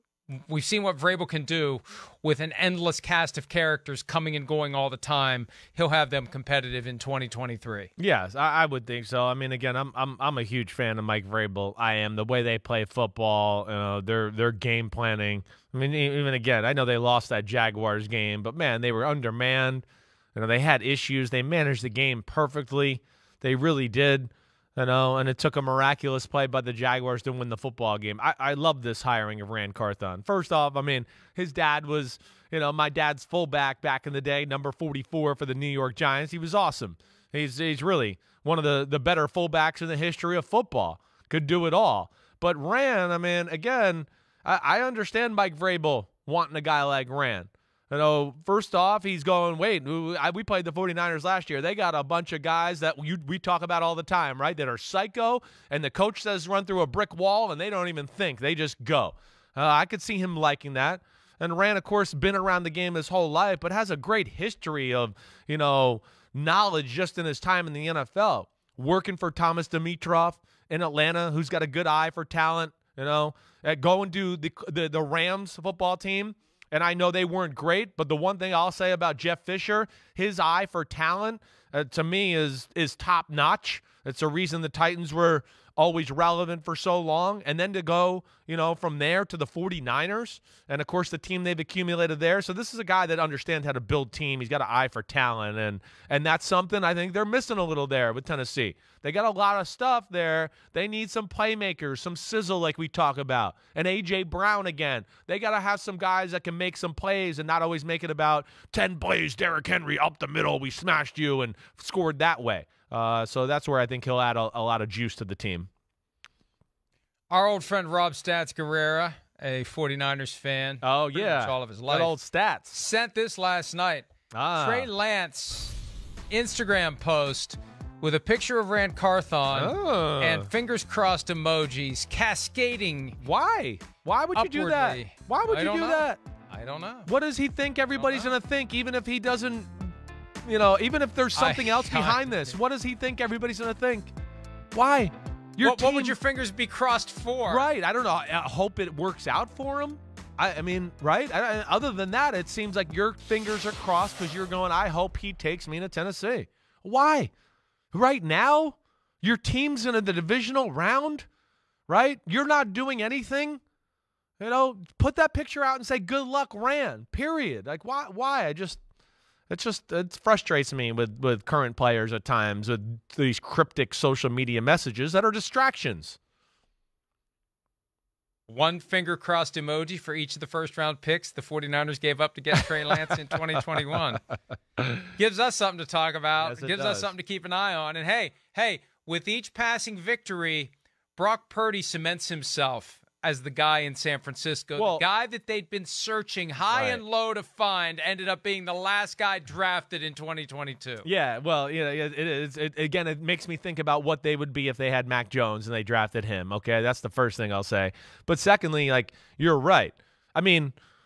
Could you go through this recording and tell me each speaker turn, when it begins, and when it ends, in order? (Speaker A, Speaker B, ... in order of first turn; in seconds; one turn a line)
Speaker A: 0.3-7.9
Speaker B: 8.0-115.7
Speaker A: 117.3-122.1
Speaker B: 120.8-122.7
Speaker A: 122.7-125.8
Speaker B: 124.3-124.9
Speaker A: 126.3-133.2
Speaker B: 129.5-130.5
Speaker B: 133.2-136.2
Speaker A: 134.3-137.1
Speaker B: 137.1-144.1
Speaker A: 137.9-138.3
Speaker A: 141.3-142.6
Speaker B: 144.7-146.2
Speaker A: 145.6-147.7
Speaker B: 147.5-157.3
Speaker B: 157.9-161.2
Speaker B: 161.9-163.6
Speaker B: 164.4-168.8
Speaker B: 169.5-176.2
Speaker A: 178.5-184.2
Speaker A: 184.9-201.1
Speaker B: 186.4-187.1
Speaker B: 194.8-195.0
Speaker B: 196.7-197.0
Speaker B: 201.0-210.7